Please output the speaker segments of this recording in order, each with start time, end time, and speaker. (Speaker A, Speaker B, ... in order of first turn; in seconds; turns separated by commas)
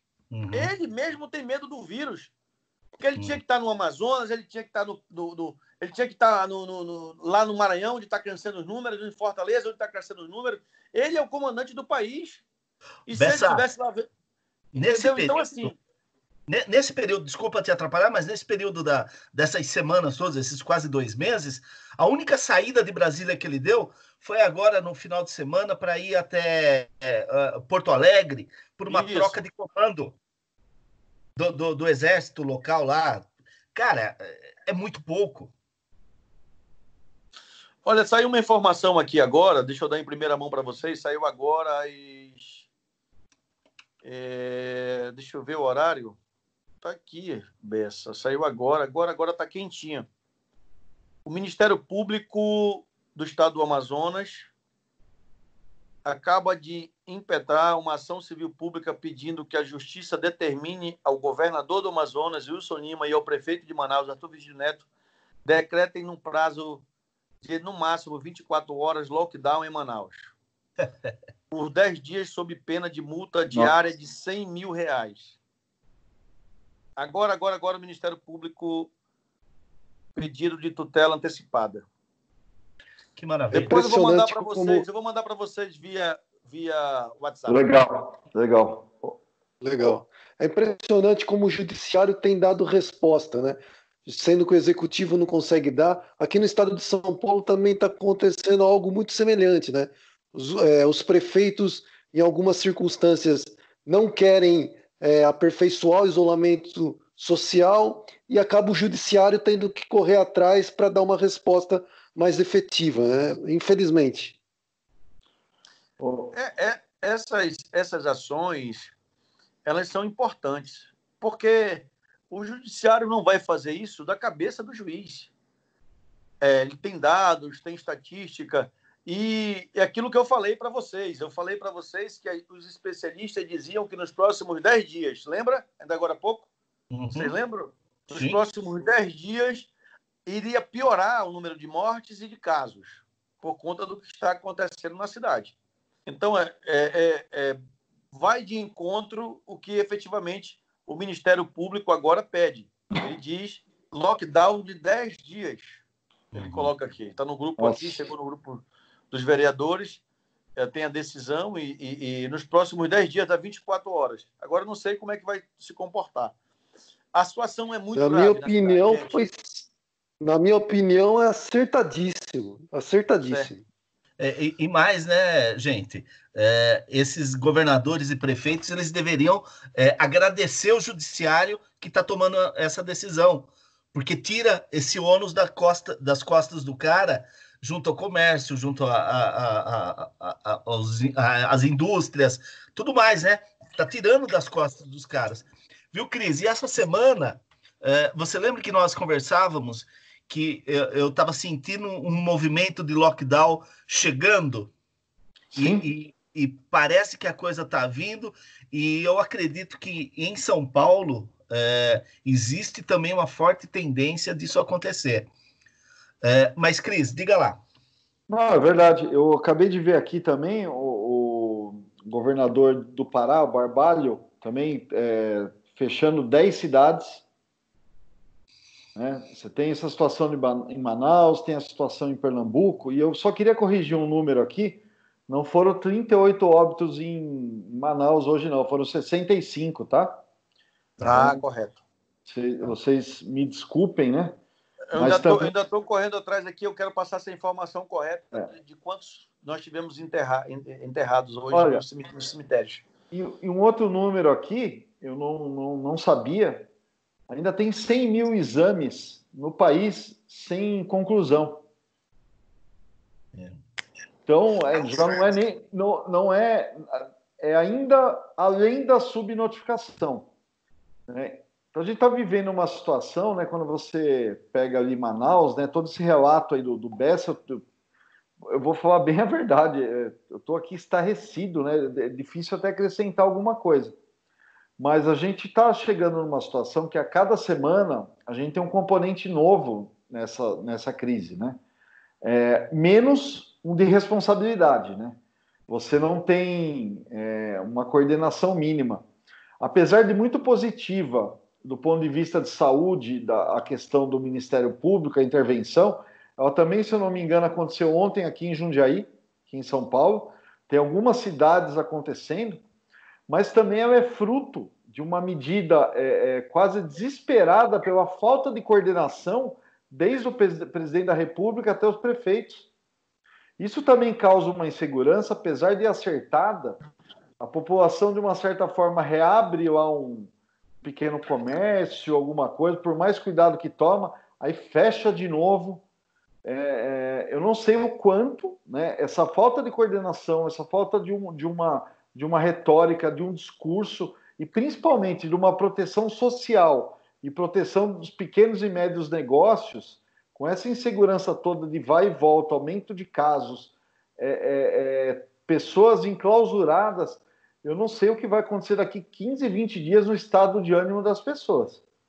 Speaker A: 0.3-0.7, Speaker B: 0.5-2.3, Speaker B: 3.0-12.4, Speaker B: 13.1-14.1, Speaker A: 13.1-13.6, Speaker A: 14.7-15.7, Speaker B: 14.8-15.8, Speaker A: 16.5-30.2, Speaker B: 28.9-29.4, Speaker A: 31.4-35.5, Speaker B: 37.8-42.7, Speaker B: 44.0-46.2, Speaker B: 46.8-50.1, Speaker B: 51.2-54.5, Speaker B: 56.0-64.8, Speaker B: 65.4-66.8, Speaker B: 67.4-70.3, Speaker A: 70.8-71.1, Speaker B: 71.5-75.4, Speaker B: 77.0-78.9, Speaker B: 80.2-81.8, Speaker A: 83.2-83.8, Speaker C: 83.5-84.8, Speaker B: 83.5-87.7, Speaker D: 87.5-89.2, Speaker C: 89.6-114.4, Speaker D: 116.0-116.3, Speaker B: 116.3-118.9, Speaker B: 119.7-125.3, Speaker B: 126.4-136.5, Speaker A: 136.9-137.3, Speaker B: 137.1-139.7, Speaker A: 138.1-138.4, Speaker B: 140.2-147.6, Speaker B: 148.1-155.8, Speaker A: 156.3-156.7, Speaker B: 156.3-160.0, Speaker D: 157.6-158.1, Speaker B: 160.6-166.3, Speaker B: 167.1-169.2, Speaker C: 167.9-169.7, Speaker C: 170.2-173.6, Speaker A: 174.2-204.7, Speaker D: 205.5-205.8, Speaker A: 205.5-215.3, Speaker A: 216.2-217.6, Speaker D: 218.3-227.2, Speaker D: 228.9-240.2, Speaker D: 241.0-241.4, Speaker B: 241.0-241.8, Speaker D: 242.2-244.4, Speaker B: 244.9-252.8, Speaker D: 244.9-245.5, Speaker D: 251.5-251.8, Speaker D: 253.1-256.7, Speaker D: 257.3-261.6, Speaker D: 264.3-270.3, Speaker D: 271.1-277.6, Speaker D: 278.5-283.9, Speaker D: 284.8-291.6, Speaker D: 292.2-299.0, Speaker D: 299.6-312.6, Speaker D: 313.3-322.6, Speaker D: 323.6-326.8, Speaker D: 327.4-330.3, Speaker D: 330.8-335.8, Speaker D: 336.4-361.8